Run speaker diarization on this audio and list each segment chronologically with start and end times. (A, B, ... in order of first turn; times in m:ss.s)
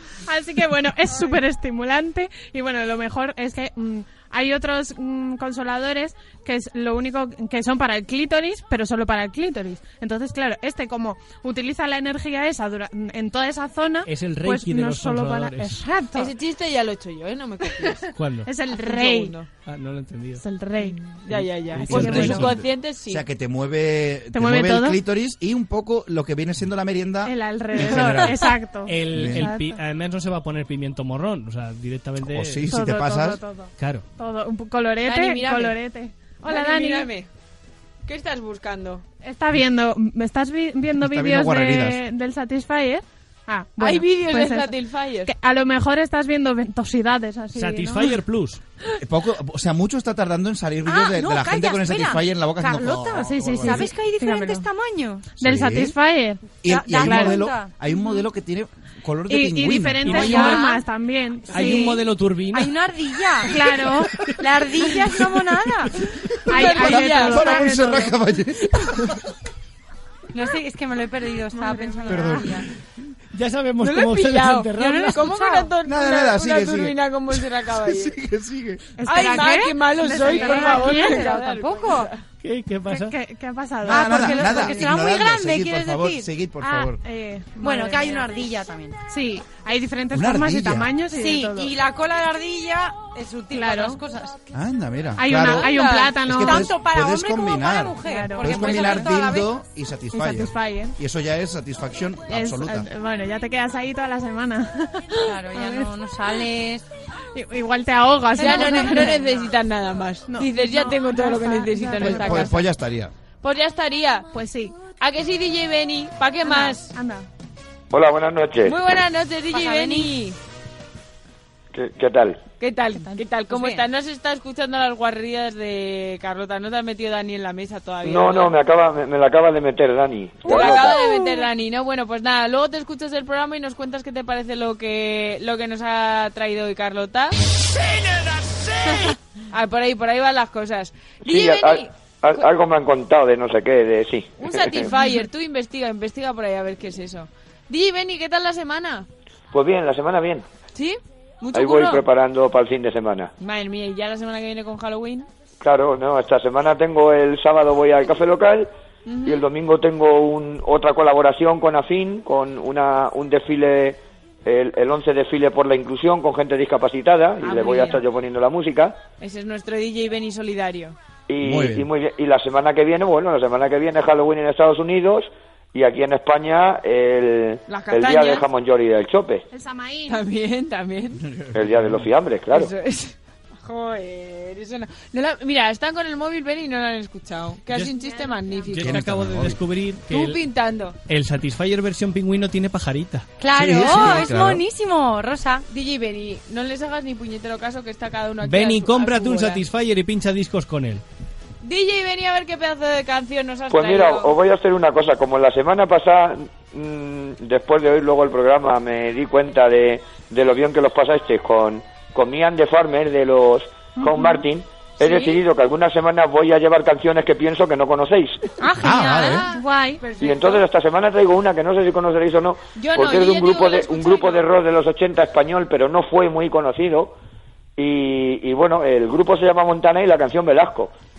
0:00.2-0:16.3 A
0:14.0-0:15.8 B
0:16.1-0:18.1 C
0:18.2-0:18.5 B
0:18.4-0:19.3 A
0:18.7-0:19.5 C
0:19.6-0:20.4 B
0:20.4-0:21.1 A
0:20.8-0:23.2 C
0:21.3-0:22.5 B
0:21.8-0:22.5 A
0:21.9-0:28.4 D
0:24.3-0:25.0 A
0:27.2-0:29.8 A
0:28.0-0:28.3 B
0:28.9-0:32.7 B
0:29.1-0:29.5 D
0:32.2-0:33.4 D
0:32.7-0:37.1 A
0:33.8-0:34.0 B
0:35.0-0:35.8 C
0:36.4-0:37.3 C
0:38.1-0:39.0 C
0:39.2-0:44.7 A
0:41.0-0:42.0 D
0:43.8-0:45.3 C
0:45.2-0:48.2 A
0:47.5-0:48.6 B
0:49.0-0:53.9 D
0:50.8-0:55.2 E
0:53.1-0:54.6 A
0:55.4-0:56.0 D
0:55.4-0:57.4 A
0:56.6-1:00.3 D
0:56.6-0:57.7 E
0:59.3-1:02.1 A
1:00.0-1:00.7 B
1:00.1-1:00.8 E
1:01.5-1:02.7 B
1:01.5-1:03.6 E
1:03.5-1:04.2 A
1:04.2-1:06.0 E
1:06.5-1:07.5 C
1:06.5-1:08.2 A
1:06.8-1:09.2 D
1:07.2-1:07.5 E
1:10.3-1:12.6 E
1:11.5-1:12.4 A
1:13.3-1:15.3 B
1:13.8-1:18.1 C
1:14.8-1:15.7 E
1:15.8-1:17.0 D
1:17.7-1:18.9 D
1:19.0-1:21.3 A
1:19.0-1:22.2 C
1:20.2-1:22.1 E
1:22.4-1:23.2 B
1:22.9-1:25.0 A
1:23.8-1:27.0 D
1:23.8-1:26.3 E
1:26.6-1:28.3 A
1:27.6-1:29.0 E
1:29.1-1:31.7 A
1:30.1-1:30.9 D
1:31.1-1:34.4 E
1:33.5-1:34.0 A
1:34.5-1:42.9 D
1:35.2-1:36.7 A
1:35.4-1:36.2 C
1:36.3-1:39.5 E
1:38.0-1:39.2 A
1:40.1-1:41.0 A
1:42.3-1:45.9 A
1:45.2-1:46.8 E
1:47.3-1:49.4 A
1:48.4-1:52.6 C
1:48.4-1:49.1 E
1:50.3-1:52.6 A
1:52.0-1:53.1 D
1:53.4-1:54.3 C
1:54.3-1:54.8 A
1:55.0-1:56.9 C
1:56.4-1:57.3 A
1:57.9-1:58.8 F
1:58.6-2:00.4 C
1:59.5-2:00.1 E
2:01.7-2:02.4 F
2:02.6-2:08.6 C
2:02.9-2:03.2 A
2:03.5-2:03.8 E
2:08.0-2:11.0 F
2:10.4-2:11.5 A
2:10.4-2:17.4 C
2:18.8-2:22.5 C
2:21.2-2:24.9 F
2:24.4-2:29.1 C
2:29.5-2:30.5 F
2:30.7-2:32.0 C
2:31.5-2:33.3 F
2:33.4-2:35.3 C
2:35.6-2:38.7 F
2:39.1-2:39.4 C
2:39.2-2:49.0 F
2:47.4-2:48.0 C
2:49.2-2:51.0 C
2:51.3-2:59.4 F
2:51.4-2:51.9 D
2:57.7-2:58.5 C
2:59.5-3:00.2 A
3:00.1-3:01.2 C
3:01.3-3:02.0 D
3:01.5-3:02.7 F
3:02.5-3:09.1 C
3:07.9-3:08.8 A
3:08.7-3:10.4 B
3:08.8-3:09.6 D
3:10.1-3:11.0 C
3:11.1-3:13.2 B
3:13.4-3:15.6 E
3:13.5-3:14.6 D
3:13.8-3:14.2 B
3:15.7-3:19.6 C
3:18.4-3:21.0 B
3:21.6-3:24.4 C
3:23.7-3:38.4 F
3:34.0-3:34.3 A
3:35.0-3:35.4 C
3:38.6-3:39.4 E
3:38.8-3:39.5 D
3:39.2-3:40.6 C
3:39.5-3:40.0 A
3:40.2-3:47.1 F
3:42.8-3:44.5 C
3:47.8-3:50.9 F